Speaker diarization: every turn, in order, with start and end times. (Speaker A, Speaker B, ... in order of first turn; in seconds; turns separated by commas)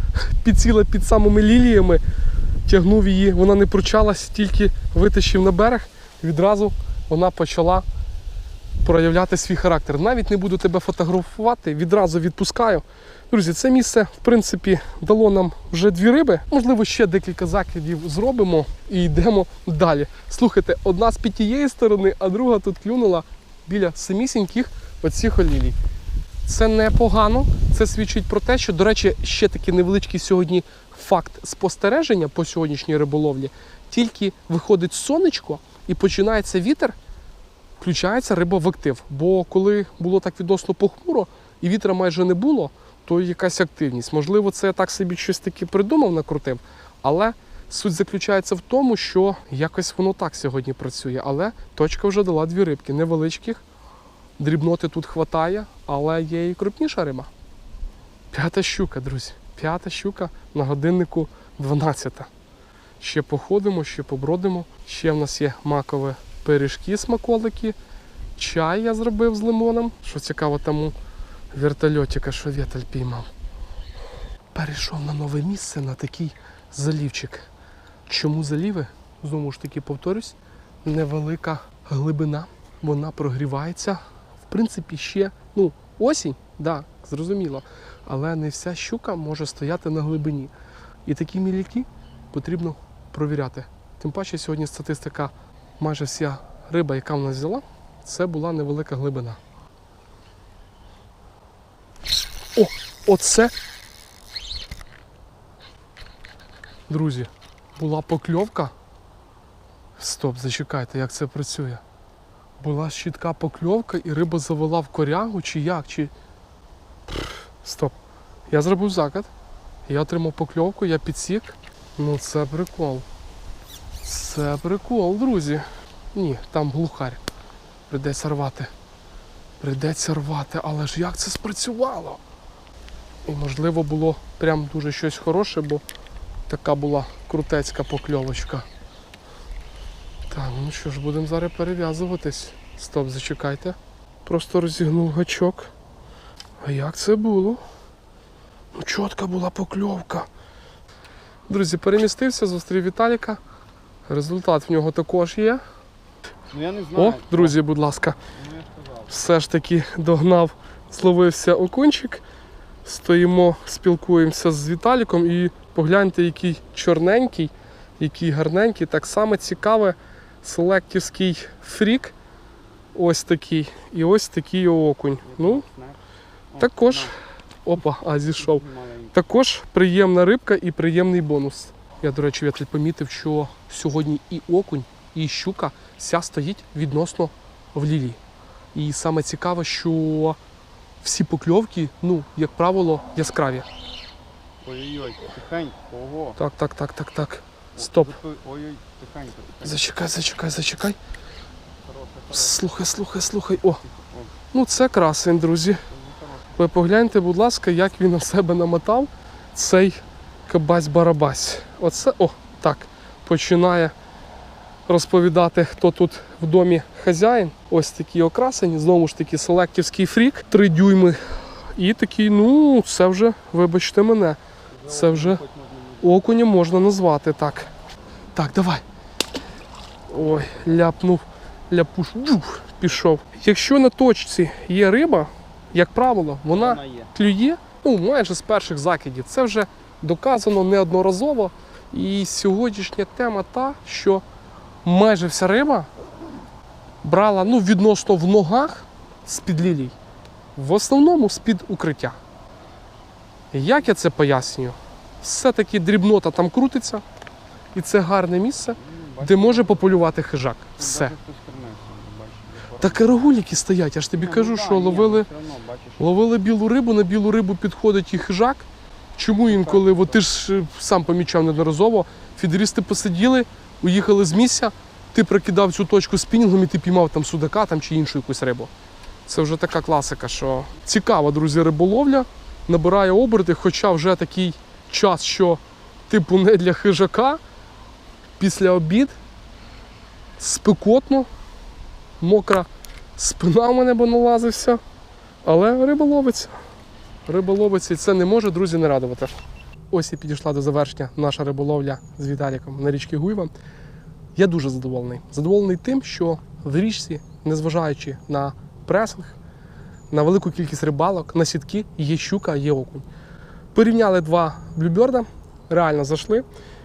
Speaker A: 0.2-2.0, Speaker A: 2.7-7.9, Speaker A: 8.8-25.8, Speaker A: 26.5-37.0, Speaker A: 37.8-53.6, Speaker A: 54.4-57.3, Speaker A: 58.3-62.3, Speaker A: 63.0-67.8, Speaker A: 68.4-71.0, Speaker A: 71.5-73.3, Speaker A: 74.5-77.5, Speaker A: 78.1-90.5, Speaker A: 91.0-99.4, Speaker A: 102.6-103.5, Speaker A: 106.9-108.7, Speaker A: 110.0-111.8, Speaker A: 112.6-116.1, Speaker A: 117.6-118.0, Speaker A: 118.5-119.3, Speaker A: 119.9-123.1, Speaker A: 124.0-127.2, Speaker A: 127.9-128.7, Speaker A: 129.6-132.2, Speaker A: 133.2-135.8, Speaker A: 136.5-138.7, Speaker A: 140.3-145.7, Speaker A: 146.6-147.6, Speaker A: 148.8-150.3, Speaker A: 151.5-153.4, Speaker A: 154.1-155.6, Speaker B: 156.5-157.6, Speaker A: 156.9-158.2, Speaker B: 158.3-159.1, Speaker A: 159.1-162.2, Speaker A: 162.8-172.2, Speaker A: 172.9-175.7, Speaker B: 175.2-177.2, Speaker A: 176.6-188.2, Speaker B: 178.4-179.1, Speaker A: 188.7-190.4, Speaker A: 191.0-193.7, Speaker B: 194.6-196.4, Speaker A: 196.4-198.2, Speaker B: 197.8-199.9, Speaker A: 199.6-201.0, Speaker B: 201.8-202.6, Speaker A: 202.3-203.8, Speaker B: 203.9-204.3, Speaker A: 204.5-205.8, Speaker B: 205.9-206.6, Speaker A: 206.6-213.9, Speaker A: 214.9-225.4, Speaker B: 224.8-226.1, Speaker A: 226.0-227.7, Speaker A: 228.3-228.8, Speaker A: 230.1-244.2, Speaker B: 230.4-230.7, Speaker B: 236.5-237.1, Speaker A: 244.8-245.9, Speaker A: 247.0-250.0, Speaker A: 250.6-252.2, Speaker A: 253.5-257.0, Speaker A: 257.8-261.1, Speaker B: 258.8-260.0, Speaker B: 260.8-263.1, Speaker A: 262.8-265.3, Speaker B: 264.1-266.1, Speaker A: 266.0-278.7, Speaker B: 269.5-270.1, Speaker A: 279.3-287.4, Speaker A: 288.4-289.2, Speaker A: 290.4-291.3, Speaker A: 292.2-294.8, Speaker A: 295.4-296.6, Speaker A: 297.3-299.3, Speaker A: 299.9-303.5, Speaker A: 304.4-309.4, Speaker A: 310.1-313.1, Speaker A: 313.7-316.5